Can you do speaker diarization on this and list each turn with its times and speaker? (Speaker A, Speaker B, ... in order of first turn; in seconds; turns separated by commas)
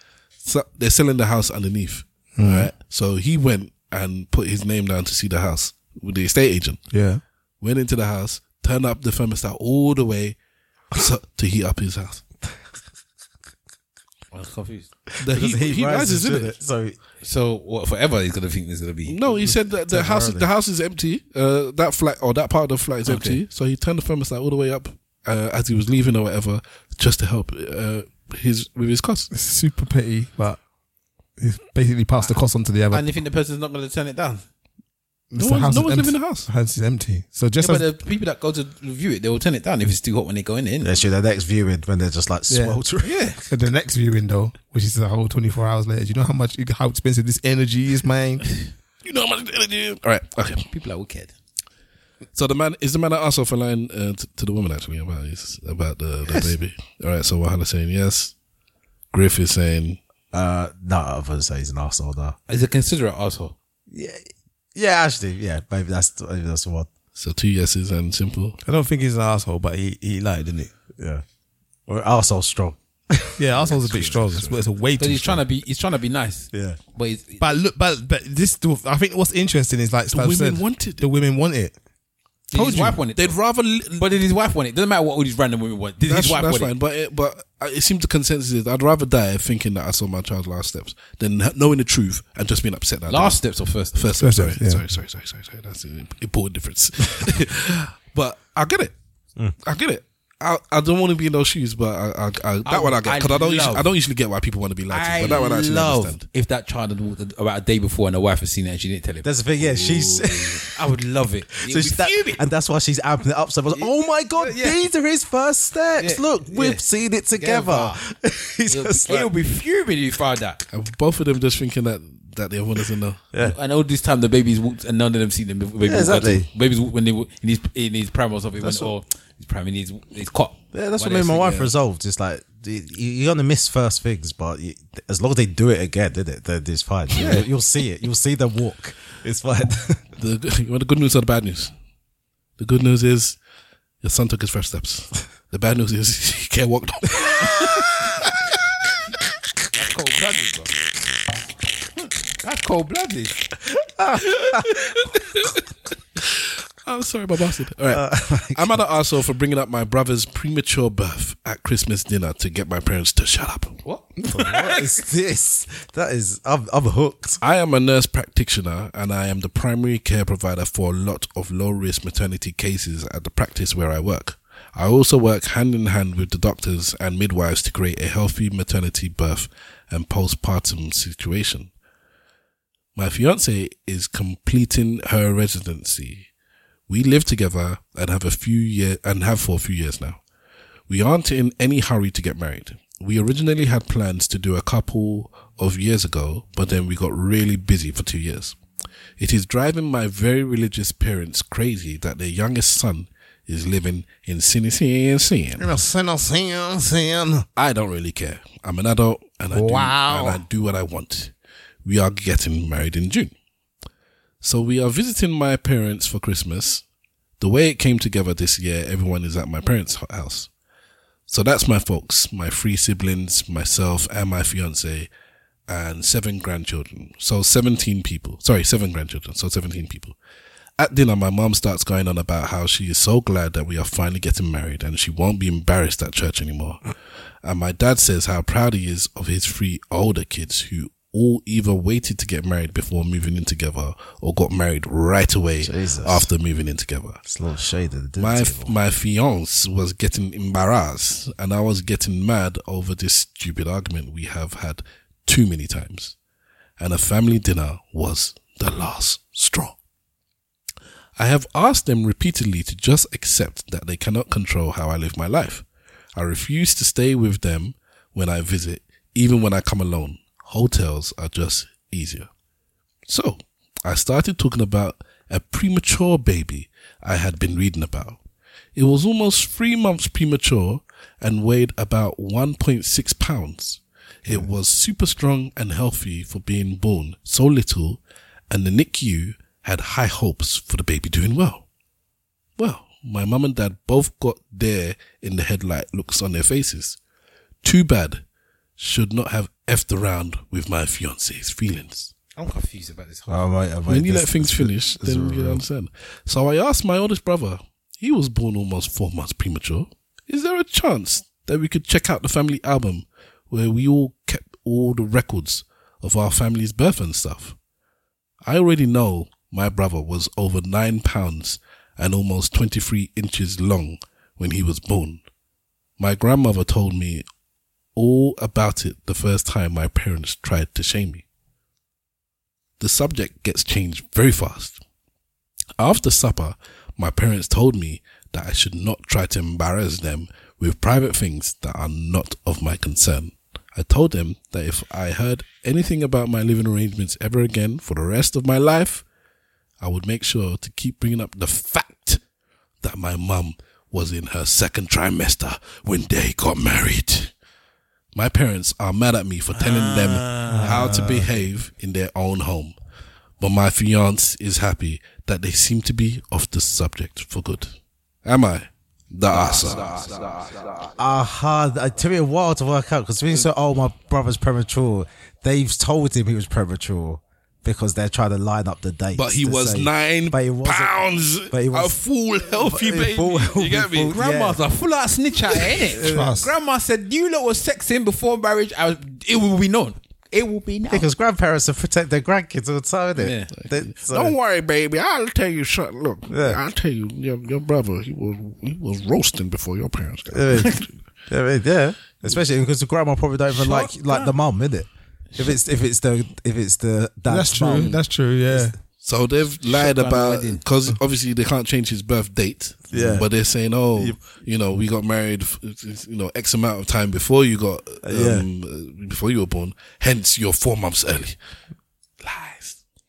Speaker A: 0.4-6.8, Speaker B: 2.4-2.7, Speaker B: 6.9-7.2, Speaker A: 7.6-10.4, Speaker A: 10.9-12.2, Speaker C: 14.3-14.9, Speaker A: 15.2-16.5, Speaker D: 15.3-17.0, Speaker C: 17.2-19.2, Speaker A: 19.1-29.3, Speaker D: 19.4-20.5, Speaker C: 23.1-23.4, Speaker B: 29.3-30.6, Speaker B: 31.4-33.1, Speaker C: 32.9-34.4, Speaker B: 35.3-37.9, Speaker A: 35.4-36.5, Speaker C: 37.6-40.9, Speaker D: 40.8-43.1, Speaker B: 42.5-42.8, Speaker C: 43.0-43.4, Speaker B: 43.5-48.4, Speaker A: 49.0-50.7, Speaker C: 50.7-51.3, Speaker A: 52.3-58.3, Speaker A: 59.1-60.0, Speaker D: 60.3-62.4, Speaker C: 62.5-63.5, Speaker D: 63.9-64.2, Speaker D: 64.7-66.9, Speaker A: 67.2-68.6, Speaker B: 68.6-70.7, Speaker D: 71.0-71.2, Speaker D: 71.9-73.4, Speaker B: 73.4-75.4, Speaker A: 73.7-74.5, Speaker C: 75.0-77.4, Speaker D: 76.5-76.8, Speaker B: 77.4-81.8, Speaker A: 80.1-81.0, Speaker C: 82.5-83.4, Speaker B: 82.5-83.0, Speaker A: 83.1-84.0, Speaker C: 83.9-86.7, Speaker A: 86.0-93.4, Speaker C: 93.1-94.0, Speaker A: 93.9-98.9, Speaker B: 94.2-94.8, Speaker A: 99.6-106.2, Speaker C: 102.6-103.9, Speaker C: 104.9-112.4, Speaker D: 109.2-110.7, Speaker D: 111.6-119.3, Speaker C: 113.7-114.8, Speaker C: 116.0-118.0, Speaker C: 118.7-120.6, Speaker A: 120.7-123.2, Speaker C: 123.4-131.7, Speaker D: 125.8-126.5, Speaker D: 128.6-128.9, Speaker D: 130.7-140.0, Speaker A: 140.2-141.7, Speaker A: 142.6-143.4, Speaker A: 144.0-147.7, Speaker C: 149.7-150.8, Speaker C: 152.4-153.5, Speaker D: 154.0-154.7, Speaker A: 154.4-155.5, Speaker A: 156.3-163.8, Speaker D: 157.9-158.8, Speaker C: 163.8-164.9, Speaker D: 164.3-167.4, Speaker A: 167.4-181.7, Speaker A: 182.9-186.3, Speaker A: 186.9-190.2, Speaker A: 190.9-198.6, Speaker A: 199.2-205.7, Speaker B: 205.6-207.4, Speaker A: 207.6-211.3, Speaker B: 209.5-210.4, Speaker A: 211.8-213.3, Speaker A: 214.4-216.8, Speaker A: 217.4-220.5, Speaker A: 221.3-225.1, Speaker A: 225.7-230.2, Speaker A: 230.8-236.8, Speaker A: 237.4-247.2, Speaker D: 245.6-246.3, Speaker D: 247.2-248.7, Speaker A: 248.2-256.1, Speaker A: 256.8-259.7, Speaker A: 261.2-265.6, Speaker A: 266.1-272.3, Speaker A: 273.1-278.2, Speaker A: 278.8-291.6, Speaker A: 292.6-297.0, Speaker A: 297.6-298.2, Speaker A: 298.8-302.1, Speaker C: 302.4-303.4, Speaker D: 303.3-305.6, Speaker A: 303.9-317.6, Speaker A: 318.4-325.2, Speaker A: 326.0-327.2, Speaker A: 327.9-331.2, Speaker A: 332.8-334.8, Speaker A: 335.8-349.0, Speaker A: 349.8-352.2, Speaker A: 352.8-357.3, Speaker A: 358.1-362.7, Speaker C: 359.6-360.6, Speaker D: 360.5-361.3, Speaker A: 363.4-367.7, Speaker A: 368.2-370.4, Speaker D: 369.5-369.9, Speaker D: 371.0-384.6, Speaker A: 379.1-384.1, Speaker C: 384.1-391.0, Speaker D: 386.0-386.4, Speaker B: 386.0-386.5, Speaker D: 390.9-394.4, Speaker C: 393.1-393.5, Speaker A: 393.5-400.7, Speaker D: 396.3-396.6, Speaker D: 400.3-408.0, Speaker C: 403.5-404.3, Speaker B: 407.3-408.8, Speaker A: 409.0-421.4, Speaker C: 409.7-410.6, Speaker D: 412.9-413.3, Speaker D: 418.0-418.4